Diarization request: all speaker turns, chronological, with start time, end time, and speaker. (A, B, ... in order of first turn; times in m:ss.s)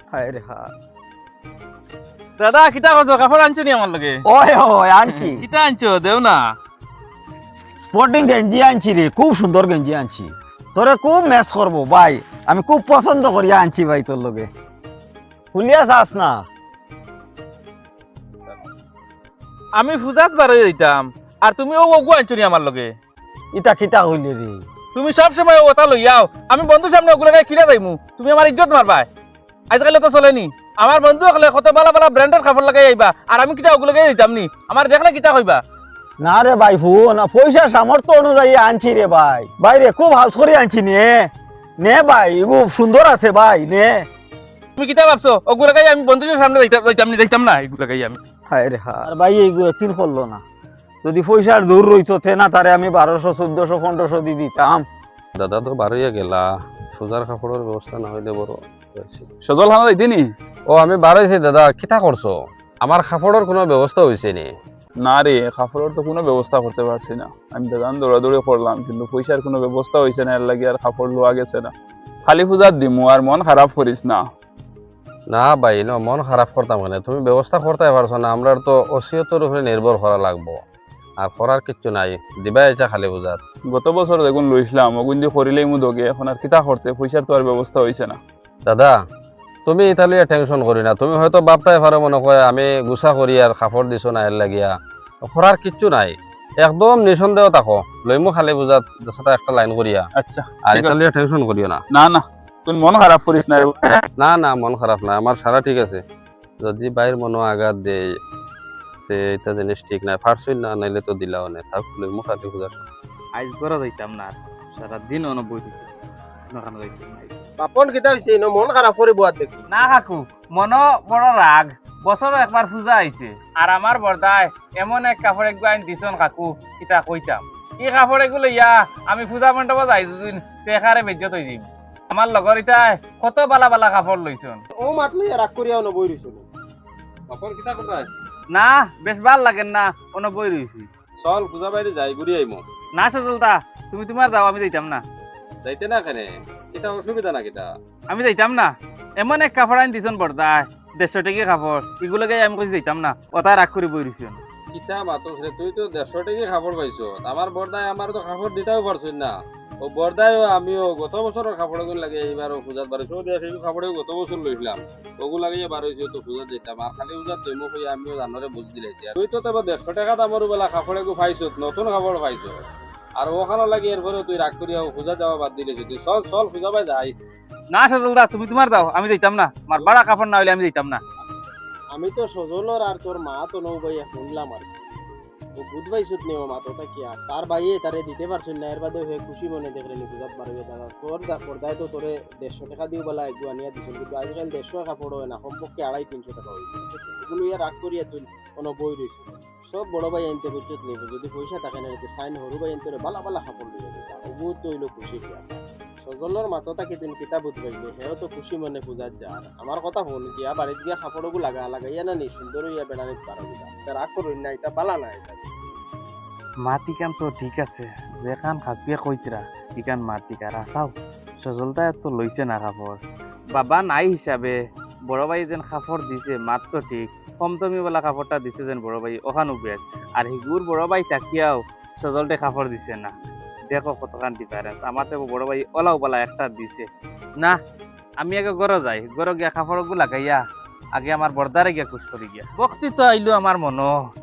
0:00.1-0:00.7 A
0:02.4-0:04.2 B
0:04.2-0:05.4 A
0:05.1-0:06.4 B
0:07.8-0:14.5 A
0:15.5-0:16.5 A
0:19.8-0:22.9 B
0:23.5-0:24.6 A
0:25.0-0:29.1 B
0:29.7-0:35.6 B
0:36.2-0:44.1 A
0:44.8-0:48.2 B
0:48.5-0:50.4 A
0:51.0-0:54.8 A
0:55.4-0:59.3 C
0:59.4-1:00.2 D
1:00.7-1:04.5 C
1:05.0-1:11.7 D
1:12.2-1:14.2 D
1:15.3-1:20.6 C
1:21.2-1:23.4 C
1:23.7-1:28.2 D
1:28.7-1:28.9 C
1:29.6-1:34.7 C
1:35.2-1:40.0 C
1:40.2-1:41.0 D
1:40.7-1:41.8 C
1:41.9-1:44.0 D
1:44.2-1:46.0 C
1:46.6-1:48.0 C
1:49.1-1:52.9 C
1:53.4-1:55.9 B
1:56.5-1:57.4 B
1:57.6-1:59.7 E
1:59.7-2:14.6 B
2:14.7-2:16.5 E
2:17.3-2:18.1 C
2:18.5-2:20.9 B
2:21.2-2:22.6 C
2:23.0-2:25.0 B
2:25.6-2:27.7 C
2:28.1-2:34.4 B
2:34.7-2:52.6 C
2:53.2-2:57.1 C
2:57.7-3:01.0 B
3:01.9-3:04.9 E
3:05.6-3:35.5 E
3:36.6-3:43.0 B
3:43.5-3:44.6 B
3:45.1-3:53.1 B
3:53.7-3:56.9 B
3:58.2-4:00.4 B
4:01.0-4:04.0 B